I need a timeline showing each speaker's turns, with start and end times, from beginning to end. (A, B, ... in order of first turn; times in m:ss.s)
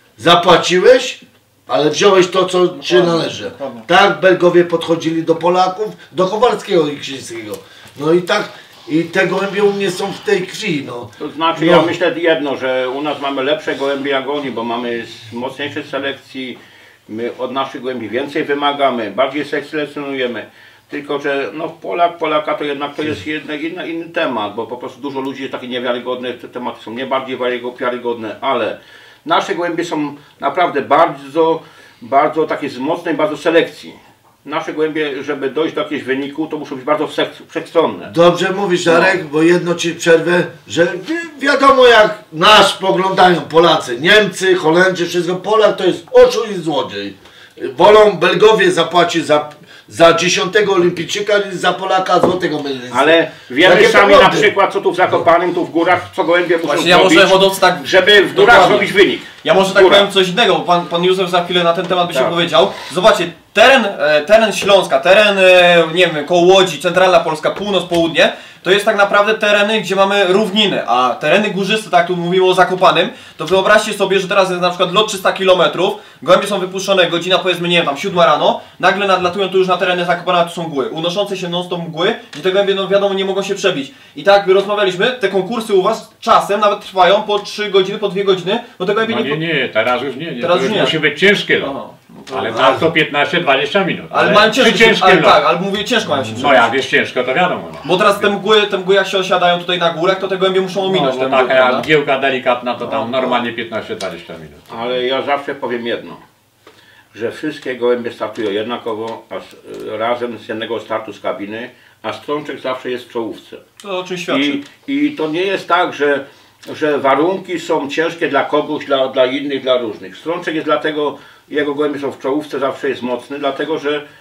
0:00.2-0:11.9 A
0:02.8-0:03.9 B
0:11.2-0:16.6 C
0:17.1-0:38.1 C
0:38.1-0:54.5 A
0:52.9-1:00.1 C
0:56.7-1:29.4 B
1:29.0-1:31.8 D
1:30.4-1:31.0 B
1:31.6-1:32.8 B
1:32.3-1:35.4 D
1:34.1-1:36.7 B
1:36.3-1:38.3 D
1:37.8-1:41.9 B
1:40.8-1:44.6 D
1:44.7-1:46.2 C
1:47.1-1:53.6 C
1:53.8-1:54.6 B
1:54.3-2:04.0 C